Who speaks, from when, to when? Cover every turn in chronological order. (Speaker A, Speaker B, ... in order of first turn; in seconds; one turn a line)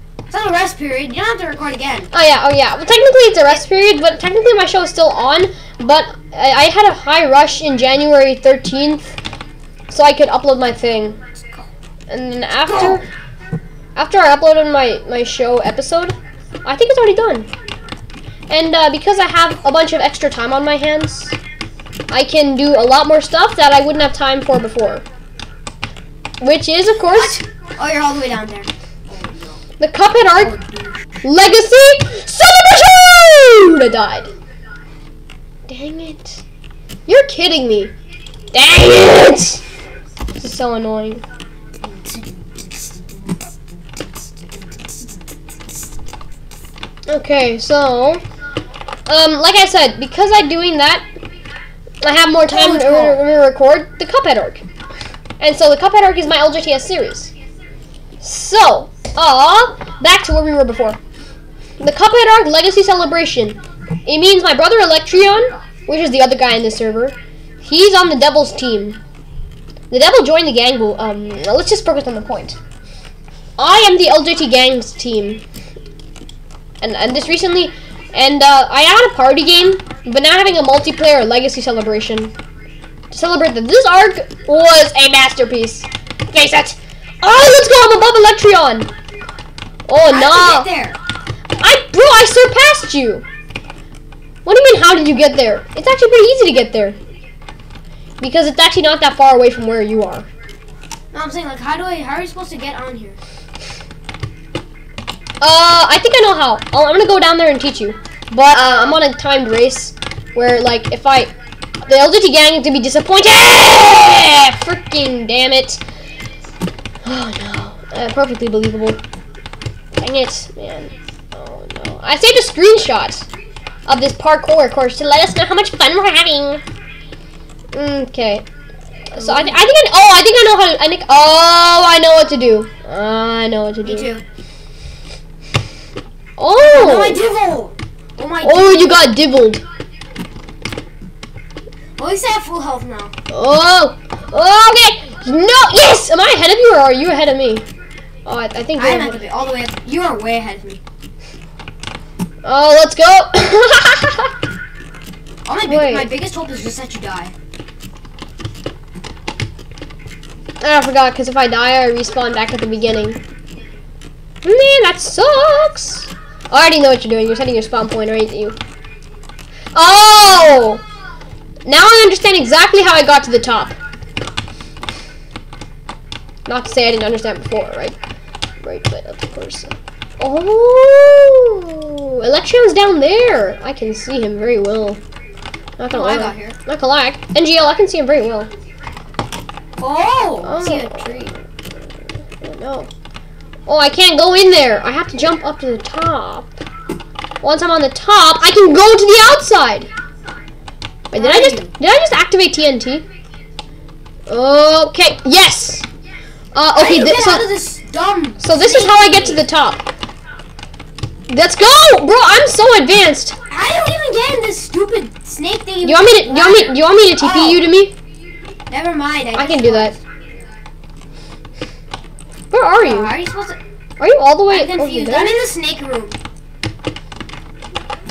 Speaker A: 0.3-2.1
Speaker B: 2.1-9.1
Speaker B: 9.9-11.2
Speaker B: 12.1-13.1
Speaker B: 13.9-17.5
Speaker B: 18.5-21.4
Speaker B: 22.1-25.1
Speaker B: 26.4-27.4
Speaker A: 27.1-29.6
Speaker B: 29.8-30.6
Speaker A: 30.4-31.0
Speaker B: 31.2-34.3
Speaker B: 35.7-36.4
Speaker B: 37.1-37.9
Speaker B: 38.5-39.6
Speaker B: 40.4-41.2
Speaker A: 41.8-43.1
Speaker B: 47.1-48.2
Speaker B: 49.1-51.1
Speaker B: 52.0-54.6
Speaker A: 52.5-53.2
Speaker B: 55.4-57.3
Speaker B: 58.2-61.0
Speaker B: 61.8-69.0
Speaker B: 69.9-72.6
Speaker B: 73.6-75.4
Speaker B: 76.8-82.3
Speaker B: 83.1-88.9
Speaker B: 89.9-90.7
Speaker A: 90.1-91.0
Speaker B: 91.6-93.2
Speaker B: 94.5-97.0
Speaker B: 98.2-100.3
Speaker A: 101.1-103.2
Speaker B: 105.4-111.3
Speaker B: 111.9-115.8
Speaker B: 117.0-119.0
Speaker B: 120.0-123.3
Speaker B: 123.9-126.6
Speaker B: 127.7-128.5
Speaker B: 129.1-134.1
Speaker A: 129.2-129.6
Speaker A: 133.8-134.2
Speaker B: 136.4-137.2
Speaker A: 136.6-139.0
Speaker B: 138.4-139.6
Speaker A: 142.0-143.1
Speaker B: 143.3-147.7
Speaker B: 148.2-149.2
Speaker A: 148.8-150.8
Speaker B: 152.4-154.3
Speaker A: 155.4-157.3
Speaker B: 155.7-156.1
Speaker B: 160.6-163.2
Speaker B: 164.4-168.6
Speaker B: 169.7-170.8
Speaker B: 171.7-173.8
Speaker B: 176.5-178.0
Speaker B: 178.6-185.0
Speaker B: 185.8-188.5
Speaker A: 185.9-186.6
Speaker A: 189.8-191.3
Speaker B: 190.4-191.5
Speaker B: 192.4-192.9
Speaker B: 193.7-196.6
Speaker B: 197.4-199.9
Speaker B: 201.1-203.1
Speaker A: 201.1-201.7
Speaker B: 204.3-205.9
Speaker B: 206.5-207.5
Speaker A: 206.8-209.4
Speaker B: 208.4-209.8
Speaker B: 211.3-213.4
Speaker A: 213.5-217.7
Speaker B: 215.8-217.9
Speaker A: 218.7-220.0
Speaker B: 219.3-219.9
Speaker B: 222.5-223.2
Speaker A: 222.8-223.6
Speaker B: 224.0-225.4
Speaker A: 224.5-226.2